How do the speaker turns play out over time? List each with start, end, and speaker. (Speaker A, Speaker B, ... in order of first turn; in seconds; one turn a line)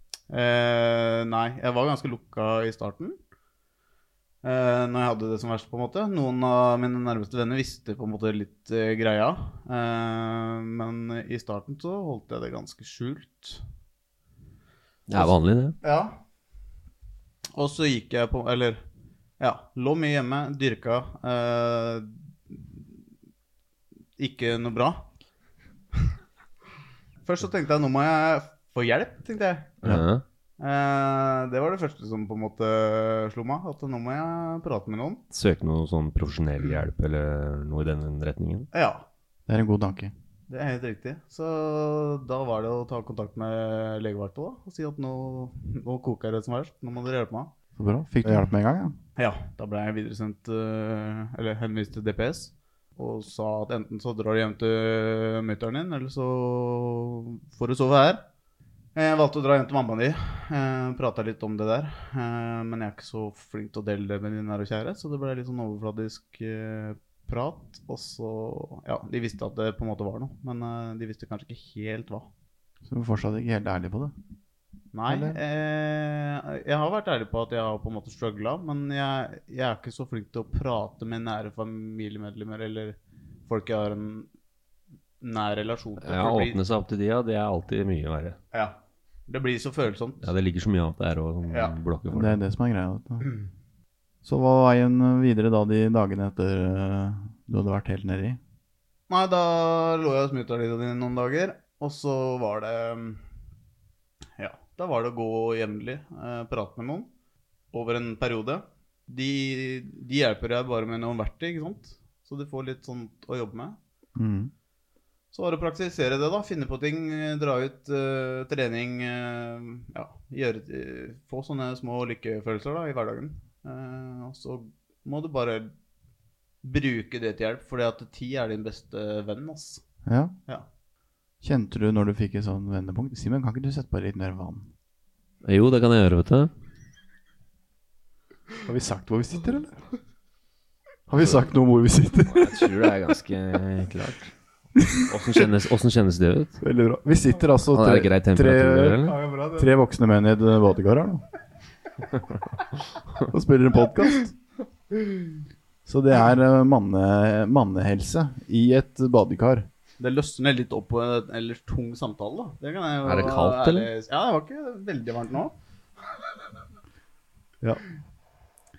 Speaker A: 0.3-3.2
Speaker A: 4.4-13.6
Speaker B: 15.1-15.8
Speaker A: 15.1-16.1
Speaker A: 17.6-18.8
Speaker A: 19.4-22.7
Speaker A: 24.2-25.1
Speaker A: 27.2-29.8
Speaker B: 29.8-30.2
Speaker A: 30.6-35.2
Speaker B: 35.3-38.7
Speaker A: 38.7-39.0
Speaker C: 39.5-40.1
Speaker A: 40.5-47.5
Speaker C: 47.8-49.0
Speaker A: 49.1-58.2
Speaker A: 58.9-72.3
Speaker C: 72.8-74.1
Speaker A: 74.9-84.3
Speaker C: 75.1-75.4
Speaker A: 85.2-86.6
Speaker B: 86.0-88.4
Speaker A: 88.5-90.3
Speaker B: 90.2-92.4
Speaker A: 91.5-91.8
Speaker C: 92.1-93.3
Speaker C: 94.2-98.4
Speaker A: 99.1-103.2
Speaker A: 104.4-107.1
Speaker A: 107.7-113.8
Speaker C: 114.2-114.5
Speaker A: 115.3-125.7
Speaker A: 126.6-129.8
Speaker C: 130.1-130.3
Speaker C: 131.4-134.7
Speaker B: 135.4-136.5
Speaker C: 138.7-139.8
Speaker C: 141.1-142.8
Speaker B: 142.3-144.3
Speaker B: 144.9-146.6
Speaker C: 146.6-151.2
Speaker B: 147.7-149.2
Speaker A: 149.1-149.7
Speaker C: 153.3-154.3
Speaker C: 155.8-159.7
Speaker A: 160.0-165.5
Speaker B: 163.0-163.9